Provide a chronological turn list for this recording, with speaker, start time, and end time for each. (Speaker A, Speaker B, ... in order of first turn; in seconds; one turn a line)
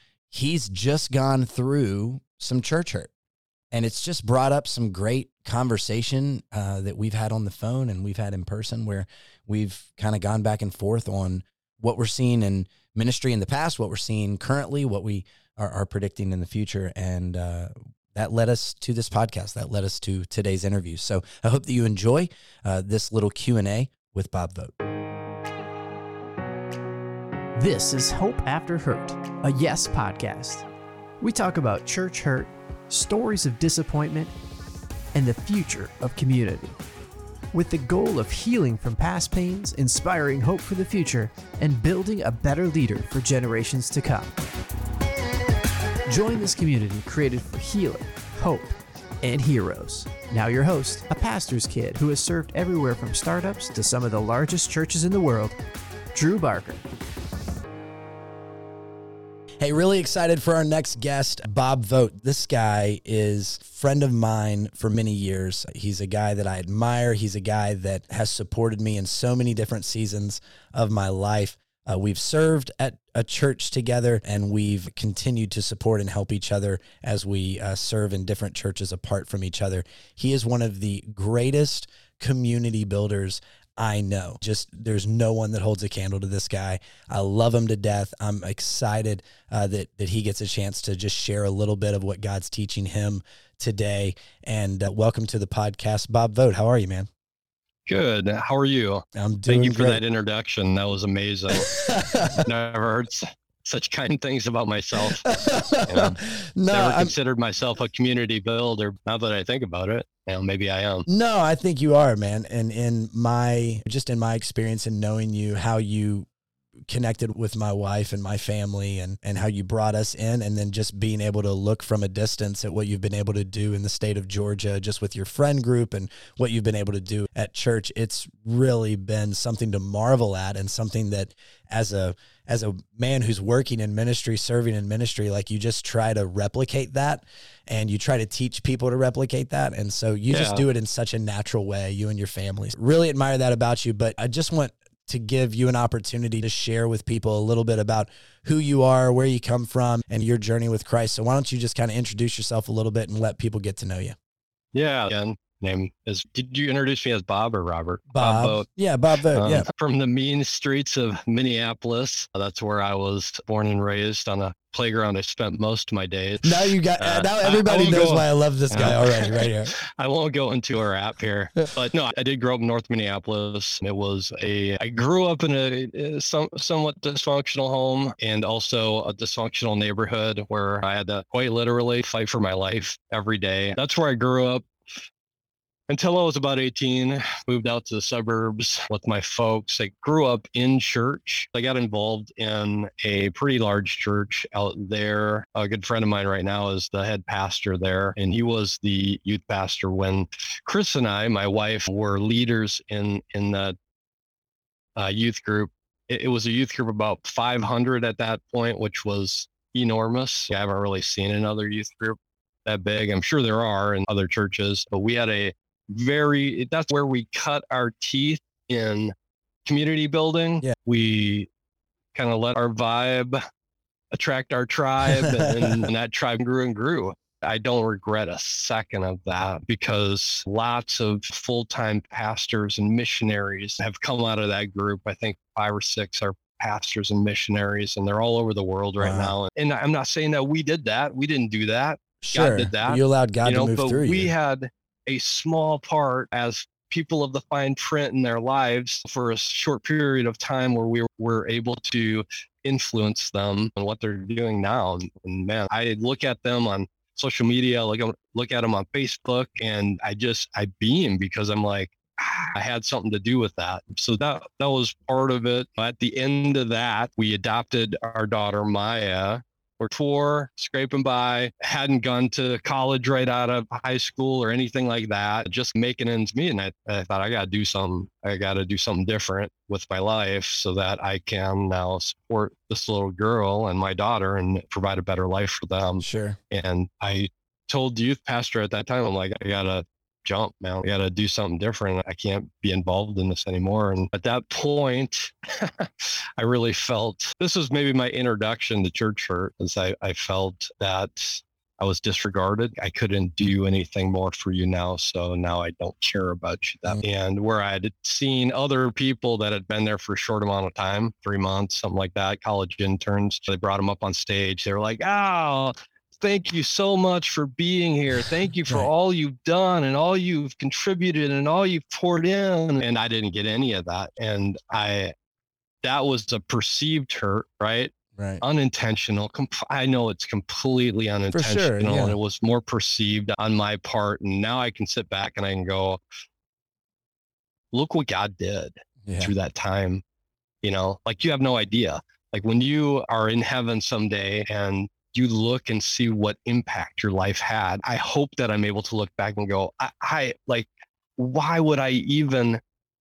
Speaker A: 0.3-3.1
Speaker A: 3.7-24.7
Speaker B: 27.6-30.7
Speaker B: 31.2-34.3
Speaker B: 35.1-36.8
Speaker B: 37.5-44.4
Speaker B: 46.1-55.6
Speaker B: 56.1-56.9
Speaker A: 59.6-97.1
Speaker C: 97.9-101.7
Speaker A: 99.2-100.0
Speaker A: 101.5-102.5
Speaker C: 102.4-105.3
Speaker A: 105.2-107.1
Speaker C: 105.9-106.2
Speaker C: 106.7-111.1
Speaker A: 111.1-116.3
Speaker A: 116.9-154.2
Speaker C: 140.3-140.7
Speaker C: 154.7-158.7
Speaker A: 158.1-159.7
Speaker C: 159.3-184.7
Speaker A: 166.4-169.7
Speaker C: 185.9-203.8
Speaker C: 205.0-219.1
Speaker C: 219.7-221.5
Speaker C: 222.2-223.4
Speaker C: 224.1-325.1
Speaker A: 225.2-225.9
Speaker A: 239.0-239.3
Speaker A: 242.2-244.3
Speaker A: 286.0-286.4
Speaker C: 325.8-336.0
Speaker A: 328.2-328.4
Speaker A: 331.3-332.2
Speaker C: 337.7-340.0
Speaker A: 339.1-339.3
Speaker C: 340.6-352.6